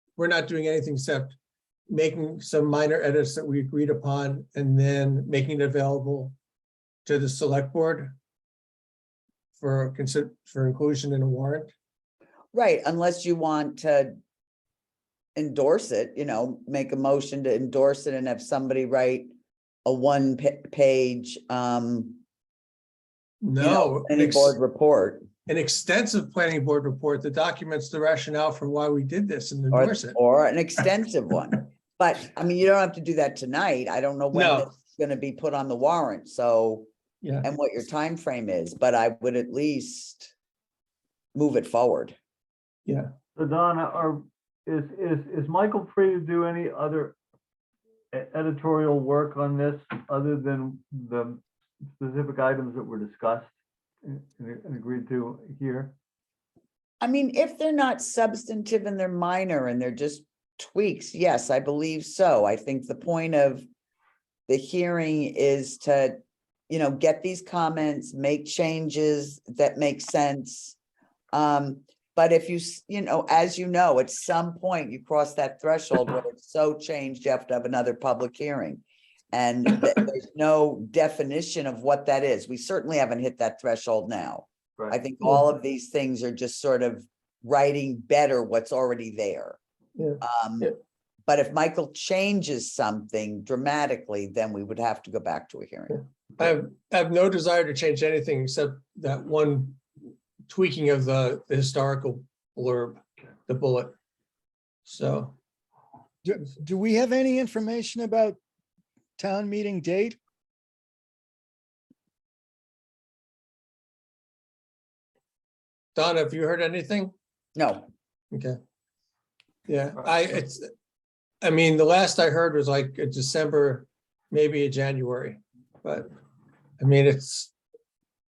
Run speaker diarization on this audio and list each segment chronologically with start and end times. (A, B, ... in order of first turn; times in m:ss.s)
0:00.2-0:01.4 A
0:01.9-0:06.3 A
0:07.0-0:08.2 A
0:09.6-0:11.7 A
0:12.5-0:14.1 B
0:15.4-0:19.3 B
0:19.8-0:22.2 B
0:23.4-0:24.5 A
0:23.6-0:25.3 B
0:25.5-0:30.2 A
0:29.7-0:36.9 B
0:34.3-0:34.7 A
0:37.4-0:40.3 B
0:41.3-0:42.2 B
0:42.8-0:43.1 A
0:43.4-0:47.2 C
0:48.1-0:51.4 C
0:52.0-0:53.5 C
0:54.0-0:55.9 C
0:57.0-1:03.7 B
1:04.5-1:10.8 B
1:11.3-1:29.6 B
1:30.0-1:30.7 A
1:30.2-1:30.7 B
1:31.2-1:36.0 B
1:36.4-1:39.8 A
1:40.5-1:43.9 A
1:44.8-1:45.4 A
1:46.2-1:48.4 D
1:49.2-1:50.2 D
1:56.0-1:57.1 A
1:57.6-1:57.8 B
1:58.3-1:58.6 A
1:59.7-2:00.7 A
2:01.4-2:06.1 A
2:06.8-2:07.5 A